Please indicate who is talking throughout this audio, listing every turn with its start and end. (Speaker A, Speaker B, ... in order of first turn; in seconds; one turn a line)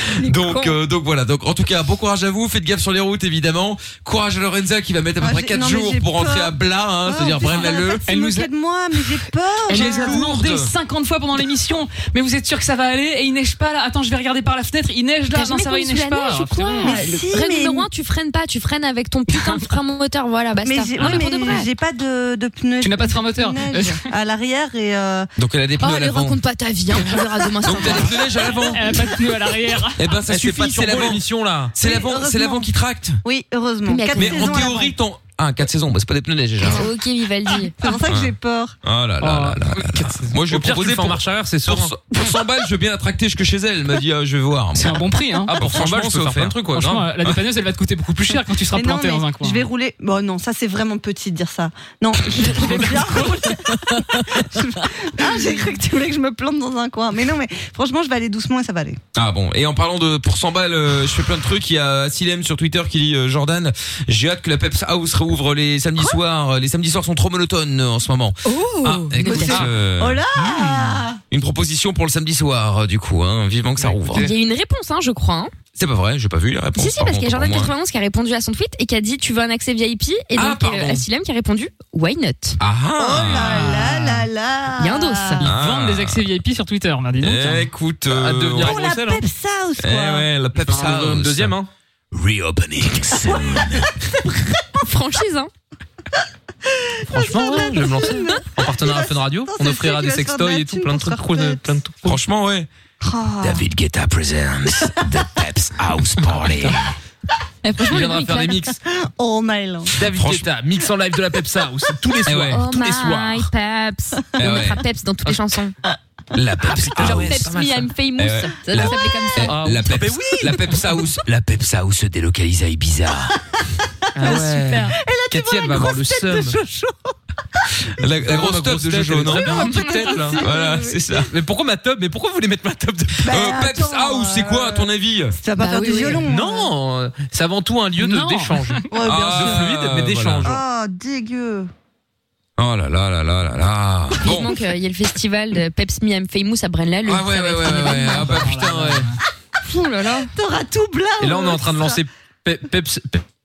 Speaker A: 0.2-0.8
Speaker B: 0.2-8.1
Speaker C: 5.2-10.2
Speaker D: 8.1-8.5
Speaker B: 9.7-10.7
Speaker D: 9.7-17.0
Speaker A: 15.3-21.7
Speaker C: 16.8-17.9
Speaker D: 19.3-19.6
Speaker C: 20.6-25.3
Speaker D: 21.0-21.2
Speaker D: 22.8-24.1
Speaker B: 25.4-26.4
Speaker A: 25.8-28.2
Speaker B: 27.6-29.1
Speaker D: 28.7-30.1
Speaker B: 30.0-31.2
Speaker E: 30.2-31.8
Speaker B: 31.8-33.2
Speaker C: 31.8-32.7
Speaker C: 33.2-34.9
Speaker A: 33.9-34.7
Speaker B: 34.1-36.9
Speaker A: 36.6-37.9
Speaker C: 37.8-38.8
Speaker B: 38.1-46.6
Speaker D: 39.2-40.2
Speaker E: 40.4-42.0
Speaker D: 44.8-45.5
Speaker E: 45.5-47.1
Speaker D: 46.7-49.7
Speaker C: 48.7-59.0
Speaker B: 52.4-53.3
Speaker B: 59.1-70.2
Speaker C: 68.5-71.2
Speaker A: 69.2-69.6
Speaker B: 71.3-74.3
Speaker E: 73.8-74.3
Speaker A: 74.1-75.5
Speaker B: 75.8-77.7
Speaker A: 76.8-82.6
Speaker B: 80.3-81.0
Speaker B: 82.6-84.0
Speaker C: 83.0-85.5
Speaker A: 84.8-85.5
Speaker B: 85.4-86.2
Speaker D: 85.4-87.7
Speaker B: 87.2-88.9
Speaker E: 88.1-89.2
Speaker C: 88.6-90.3
Speaker B: 89.8-91.6
Speaker E: 90.6-91.7
Speaker B: 92.1-93.9
Speaker C: 93.4-93.6
Speaker A: 94.8-95.5
Speaker C: 96.7-101.7
Speaker E: 97.1-102.2
Speaker B: 102.0-102.7
Speaker C: 103.0-103.7
Speaker B: 103.4-106.9
Speaker E: 106.3-106.8
Speaker A: 107.6-108.7
Speaker E: 107.9-108.8
Speaker C: 108.7-110.0
Speaker E: 110.0-113.5
Speaker B: 110.0-110.5
Speaker B: 112.3-112.7
Speaker A: 112.5-115.8
Speaker B: 114.4-114.8
Speaker B: 116.3-117.5
Speaker E: 116.8-118.0
Speaker A: 117.0-119.6
Speaker B: 118.2-123.3
Speaker C: 118.8-119.3
Speaker E: 119.4-120.9
Speaker E: 124.2-126.6
Speaker C: 124.2-127.1
Speaker A: 124.7-125.0
Speaker B: 128.0-129.9
Speaker E: 128.1-130.4
Speaker C: 129.6-131.0
Speaker B: 130.4-131.3
Speaker E: 131.2-133.2
Speaker C: 133.2-136.7
Speaker B: 133.3-135.4
Speaker A: 135.6-136.2
Speaker E: 136.2-140.6
Speaker D: 138.0-138.9
Speaker C: 138.9-139.7
Speaker B: 139.0-140.6
Speaker C: 140.4-141.7
Speaker B: 142.6-144.6
Speaker A: 144.2-148.5
Speaker B: 147.1-149.1
Speaker D: 148.0-149.2
Speaker A: 149.7-150.3
Speaker C: 150.3-152.0
Speaker E: 151.2-153.2